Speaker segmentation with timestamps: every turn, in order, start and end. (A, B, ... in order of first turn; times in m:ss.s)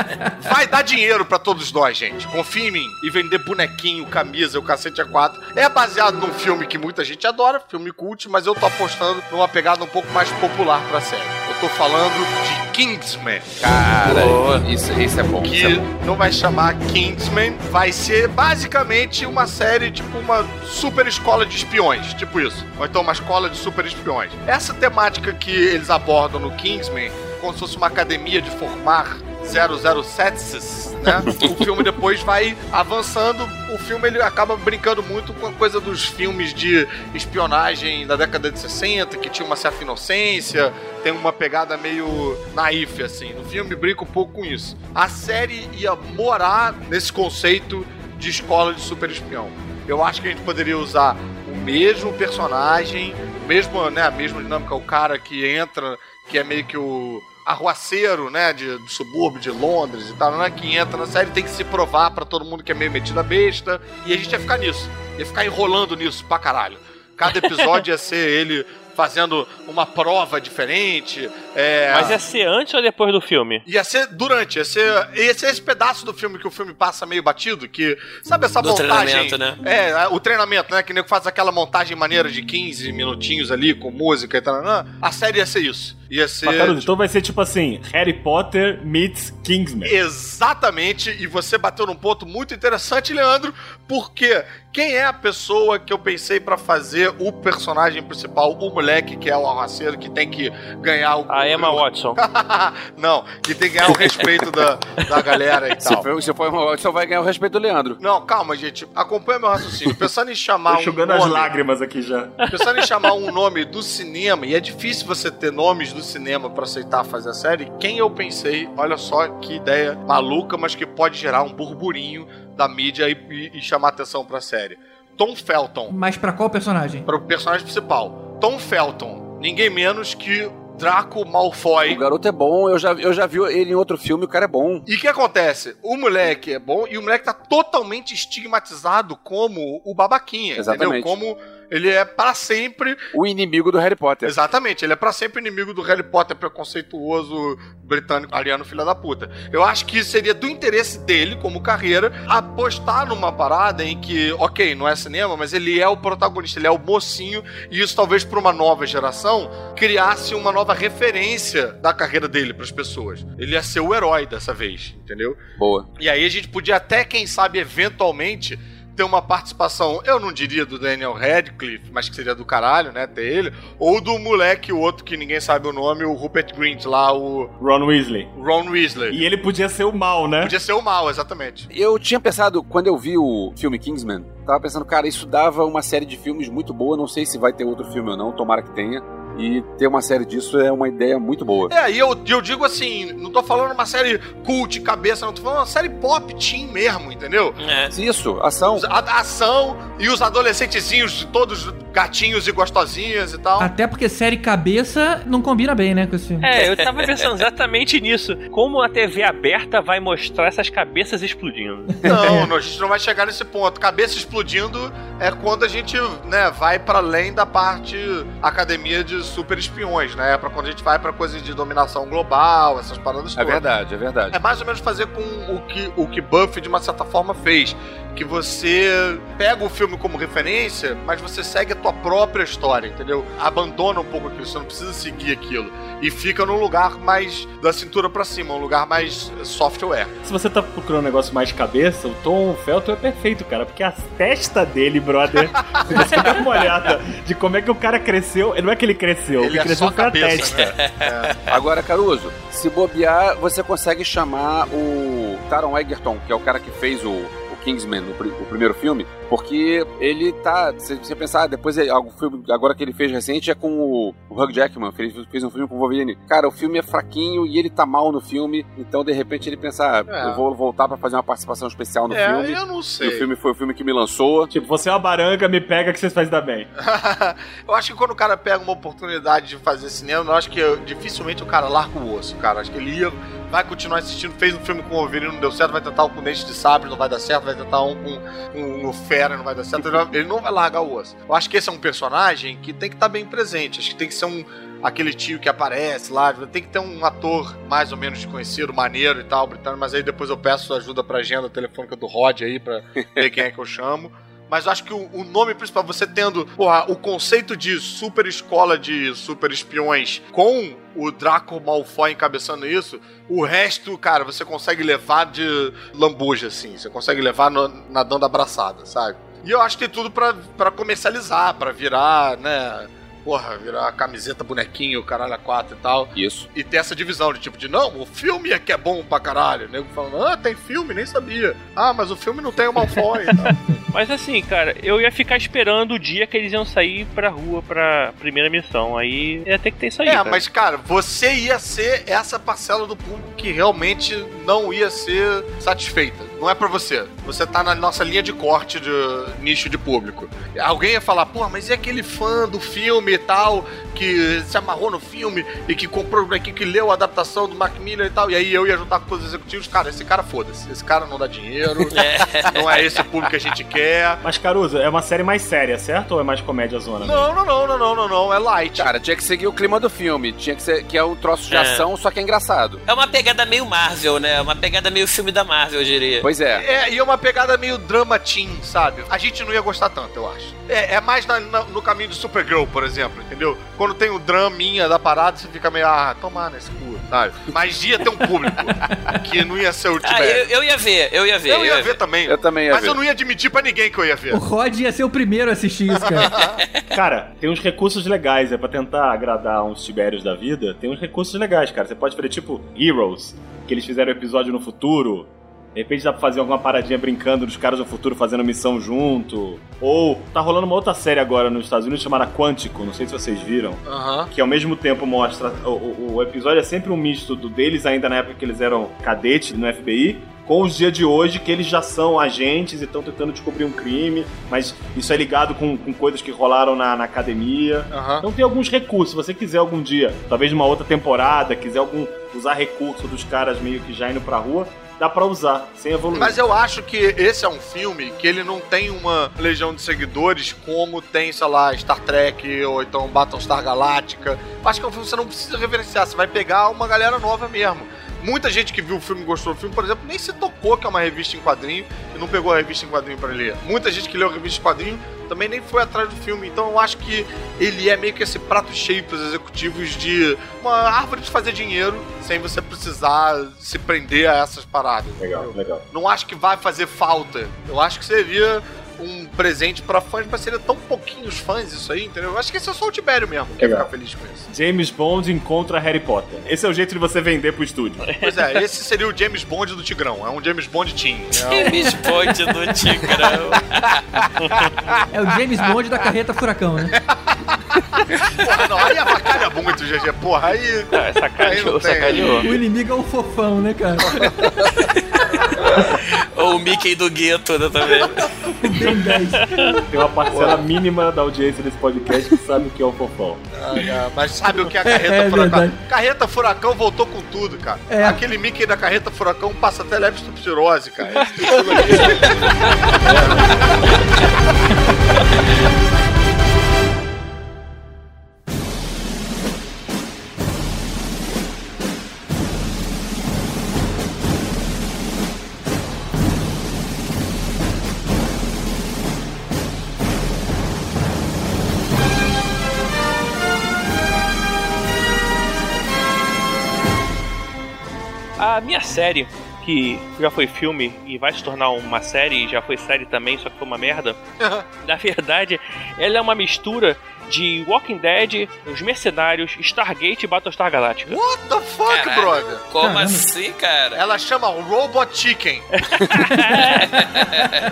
0:00.4-0:13.5 A
0:13.6-0:15.8 B
0:14.1-0:14.6 C
0:15.4-1:12.2 A
1:07.4-1:07.8 D
1:11.9-1:13.6 D
1:13.7-1:26.9 A
1:18.6-1:19.6 C
1:26.4-1:30.0 E
1:29.8-1:46.1 A
1:41.3-1:42.2 D
1:45.8-1:48.0 B
1:48.0-1:51.5 A
1:50.7-1:52.4 E
1:52.5-2:05.9 A
2:05.9-2:07.1 F
2:07.1-2:12.0 A
2:11.9-2:14.9 B
2:14.9-2:23.1 A
2:20.6-2:21.2 B
2:23.1-2:24.4 B
2:24.2-2:45.4 A
2:45.6-2:45.9 B
2:46.0-2:57.5 A
2:57.6-2:58.3 E
2:58.4-2:59.2 A
2:59.1-3:00.5 E
3:00.4-3:01.7 A
3:01.7-3:11.7 B
3:11.7-3:17.6 A
3:17.6-3:17.9 C
3:17.9-3:18.8 B
3:18.7-3:23.7 A
3:23.6-3:26.5 F
3:26.4-3:32.0 D
3:26.6-3:27.3 C
3:32.0-3:32.5 F
3:32.1-3:43.6 A
3:43.4-3:44.4 B
3:44.3-4:00.2 A
4:00.2-4:10.7 E
4:05.6-4:06.3 A
4:09.4-4:11.4 A
4:10.6-4:11.5 C
4:11.5-4:34.5 B
4:30.1-4:30.4 A
4:32.1-4:33.3 A
4:34.5-4:36.7 E
4:36.8-5:33.5 A
5:26.2-5:26.5 B
5:33.9-5:40.4 D
5:40.0-6:04.2 A
6:01.9-6:03.0 C
6:04.2-6:07.3 E
6:07.0-6:08.9 A
6:08.8-6:12.8 B
6:11.5-6:11.8 C
6:12.9-6:16.3 C
6:16.2-6:16.6 B
6:16.6-6:30.5 A
6:30.0-6:32.0 C
6:31.5-6:34.4 A
6:32.3-6:33.0 B
6:34.3-6:36.3 F
6:35.9-6:36.6 A
6:36.9-7:16.4 E
6:53.9-6:54.3 A
7:07.9-7:08.3 A
7:16.1-7:54.5 A
7:45.2-7:45.8 E
7:53.6-7:53.9 E
7:54.5-7:58.0 E
7:58.0-7:58.4 D
7:58.2-8:01.9 A
8:01.5-8:04.0 C
8:05.1-8:07.0 F
8:06.9-8:12.4 A
8:10.9-8:12.5 D
8:12.4-8:14.4 F
8:14.1-8:14.6 A
8:15.6-8:18.3 C
8:18.6-8:19.8 F
8:19.3-8:19.8 D
8:19.9-8:23.4 E
8:20.3-8:20.6 A
8:23.6-8:32.3 A
8:24.8-8:25.8 F
8:27.9-8:28.2 F
8:33.0-8:33.5 A
8:58.4-9:04.2 D
9:04.4-9:04.7 A
9:04.8-9:11.2 D
9:11.1-9:12.6 A
9:11.9-9:14.0 C
9:12.8-9:13.3 F
9:13.9-9:15.7 A
9:15.8-9:17.1 D
9:16.8-9:17.6 C